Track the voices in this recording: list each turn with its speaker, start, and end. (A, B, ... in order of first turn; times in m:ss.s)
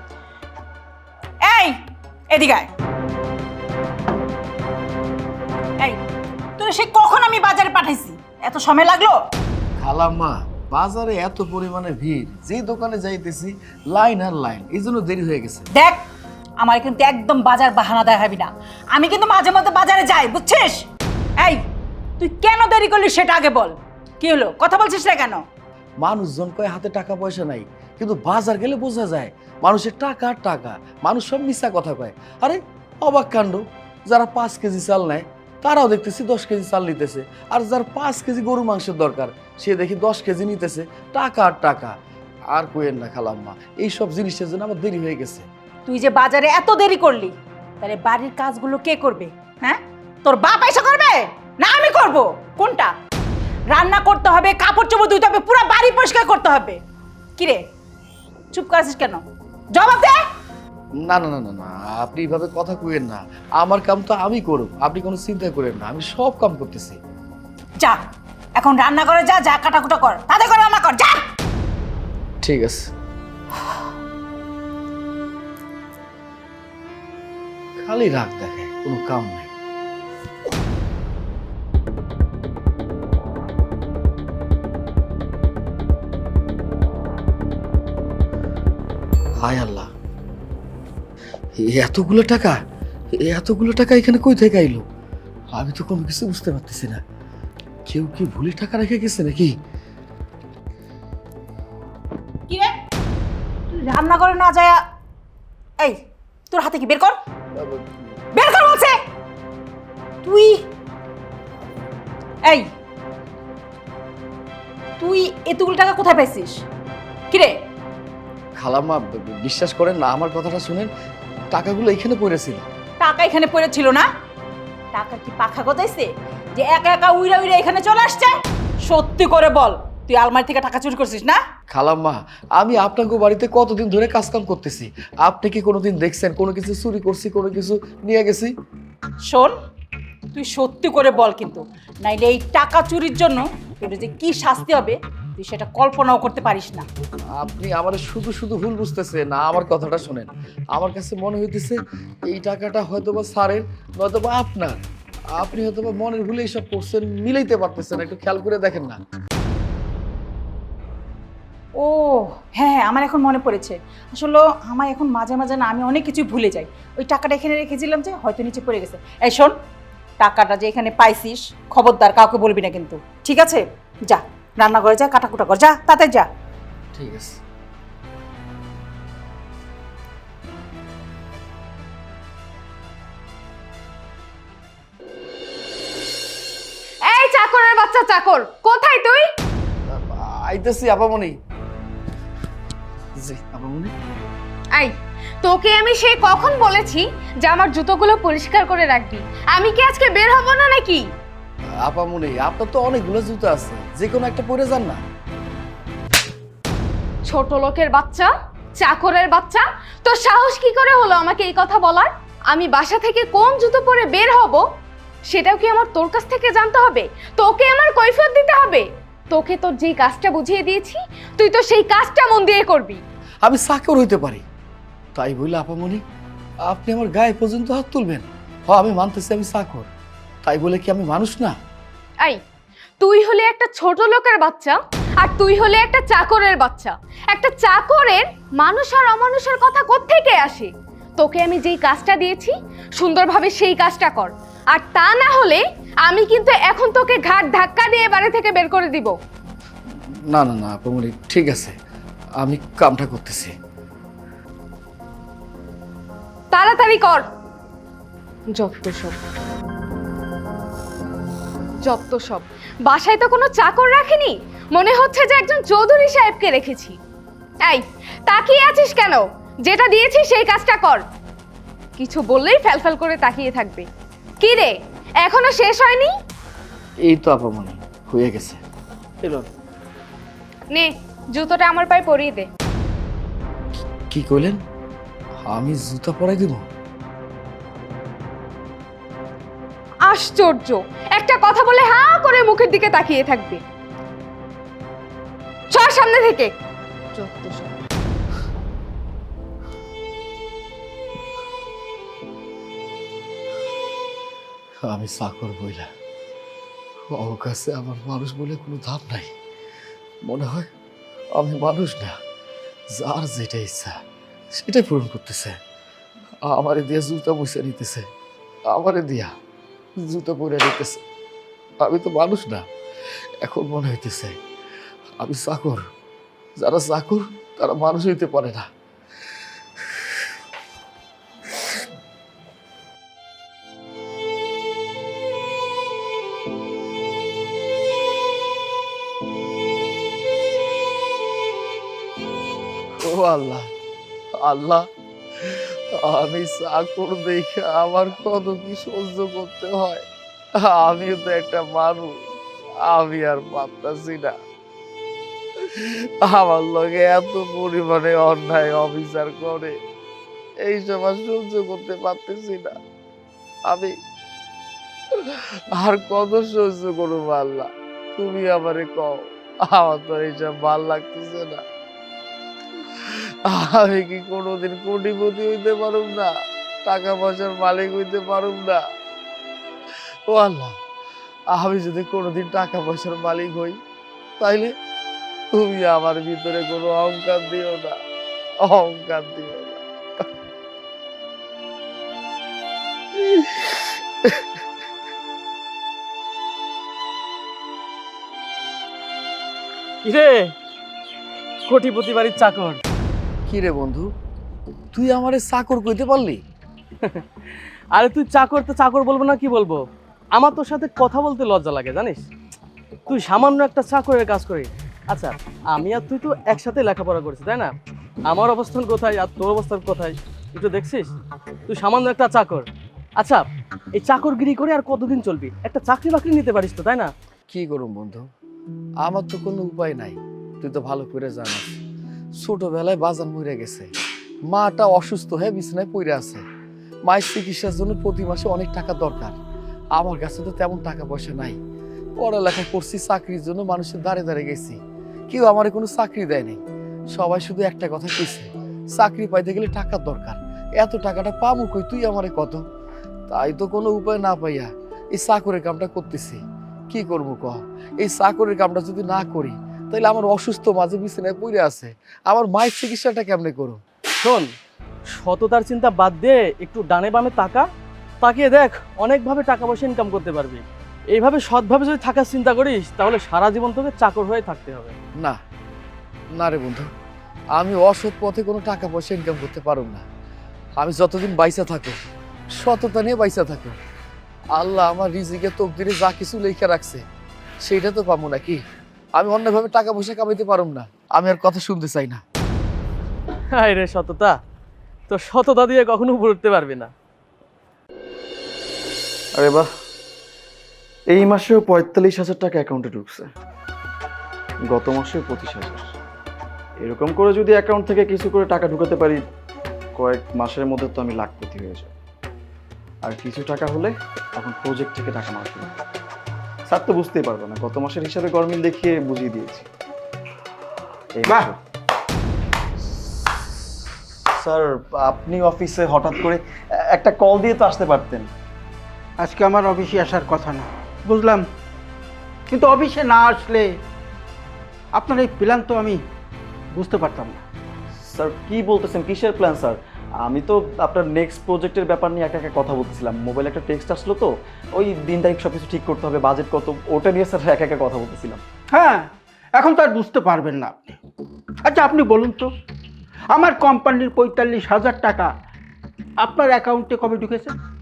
0:01.4-0:01.7 A
0:02.3-0:02.7 A
0:06.6-0:09.2 A
0:09.8-0:15.7 B
0:16.6-0:20.8 A
0:22.2-0:25.4 A
0:26.0-0:41.9 B
0:42.5-0:45.5 B
0:45.8-0:52.9 A
0:53.7-0:56.8 A
0:57.4-0:57.6 A
0:58.5-0:59.2 A
0:59.7-1:00.2 A
1:01.0-1:07.0 B
1:08.6-1:11.2 A
1:12.4-1:12.9 B
1:17.8-1:19.5 B
1:29.4-1:29.9 B
1:31.6-1:32.6 B
1:33.1-1:34.9 B
1:35.5-1:37.0 B
1:37.9-1:39.5 B
1:42.5-1:42.7 A
1:43.7-1:44.8 A
1:46.5-1:47.2 A
1:47.5-1:48.1 B
1:48.3-1:49.0 A
1:50.2-1:50.6 A
1:55.0-1:56.6 A
1:57.3-1:57.6 A
1:58.6-2:00.9 B
2:01.5-2:02.6 B
2:03.0-2:04.1 A
2:04.9-2:11.4 A
2:11.7-2:18.5 B
2:19.3-2:19.5 A
2:20.3-2:26.8 A
2:27.4-2:34.8 B
2:35.3-2:39.0 B
2:41.8-2:49.5 A
2:50.2-2:56.3 A
2:56.9-2:57.4 B
3:07.0-3:09.2 C
3:09.9-3:11.4 B
3:13.2-3:13.9 B
3:14.7-3:21.0 C
3:21.8-3:25.0 B
3:27.3-3:34.6 C
3:35.3-3:43.0 C
3:43.4-3:44.4 B
3:45.2-3:46.0 B
3:46.7-3:49.9 B
3:50.4-3:51.5 B
3:53.0-4:09.1 C
4:10.3-4:11.7 B
4:12.4-4:13.5 B
4:16.5-4:17.2 C
4:18.5-4:19.2 C
4:21.8-4:27.0 C
4:27.7-4:31.0 C
4:32.0-4:33.8 C
4:34.4-4:34.7 C
4:35.2-4:36.1 C
4:37.1-4:38.6 B
4:39.2-4:39.5 D
4:40.7-4:42.5 C
4:44.1-4:44.6 B
4:45.4-4:46.6 B
4:50.1-4:53.6 C
4:55.7-4:56.5 C
4:57.1-4:57.7 C
5:04.8-5:05.9 B
5:07.1-5:09.3 B
5:10.2-5:10.7 B
5:11.4-5:12.2 B
5:13.0-5:14.0 B
5:14.6-5:15.6 B
5:16.4-5:18.0 B
5:18.7-5:19.3 B
5:20.0-5:21.0 B
5:21.8-5:22.6 B
5:23.4-5:24.4 B
5:25.2-5:25.8 B
5:26.6-5:28.7 B
5:43.0-5:43.6 B
5:44.4-5:44.8 B
5:45.4-5:50.0 B
5:50.6-5:52.3 B
5:52.8-5:54.3 B
5:55.8-5:59.7 B
6:00.6-6:02.7 B
6:03.7-6:03.9 B
6:05.3-6:11.6 B
6:13.0-6:16.3 B
6:16.8-6:18.8 B
6:20.3-6:20.8 B
6:21.5-6:23.8 B
6:24.4-6:24.7 B
6:25.5-6:28.0 B
6:28.6-6:30.2 B
6:33.2-6:34.3 B
6:40.0-6:40.5 E
6:41.7-6:42.8 E
6:43.5-6:44.1 B
6:44.9-6:46.4 B
6:47.9-6:49.8 E
6:50.4-6:52.2 E
6:53.1-6:57.7 E
6:58.3-7:01.1 E
7:01.7-7:02.6 E
7:04.0-7:07.1 E
7:07.5-7:08.2 B
7:09.0-7:11.8 B
7:12.4-7:13.9 B
7:14.5-7:16.4 B
7:17.1-7:19.4 B
7:20.0-7:21.6 B
7:22.2-7:24.8 B
7:25.3-7:26.6 B
7:27.1-7:32.6 B
7:33.3-7:43.8 B
7:44.2-7:44.5 E
7:45.2-7:47.6 E
7:48.2-7:54.9 E
7:56.4-7:56.9 B
7:57.6-8:00.0 B
8:00.8-8:02.0 B
8:02.6-8:03.8 B
8:04.6-8:07.0 B
8:07.6-8:08.6 B
8:09.2-8:12.2 B
8:13.6-8:14.4 E
8:15.1-8:16.9 E
8:19.4-8:19.6 F
8:21.1-8:23.3 F
8:24.7-8:25.8 F
8:26.8-8:29.2 F
8:30.0-8:31.9 F
8:33.0-8:35.7 F
8:36.7-8:39.6 F
8:41.2-8:41.6 F
8:44.4-8:48.3 F
8:49.2-8:51.4 D
8:52.5-8:53.6 D
8:55.0-8:56.0 D
8:56.7-8:57.4 D
8:58.0-9:08.4 F
9:08.7-9:09.0 D
9:09.6-9:11.0 D
9:11.6-9:12.5 D
9:13.3-9:15.3 D
9:16.2-9:17.5 D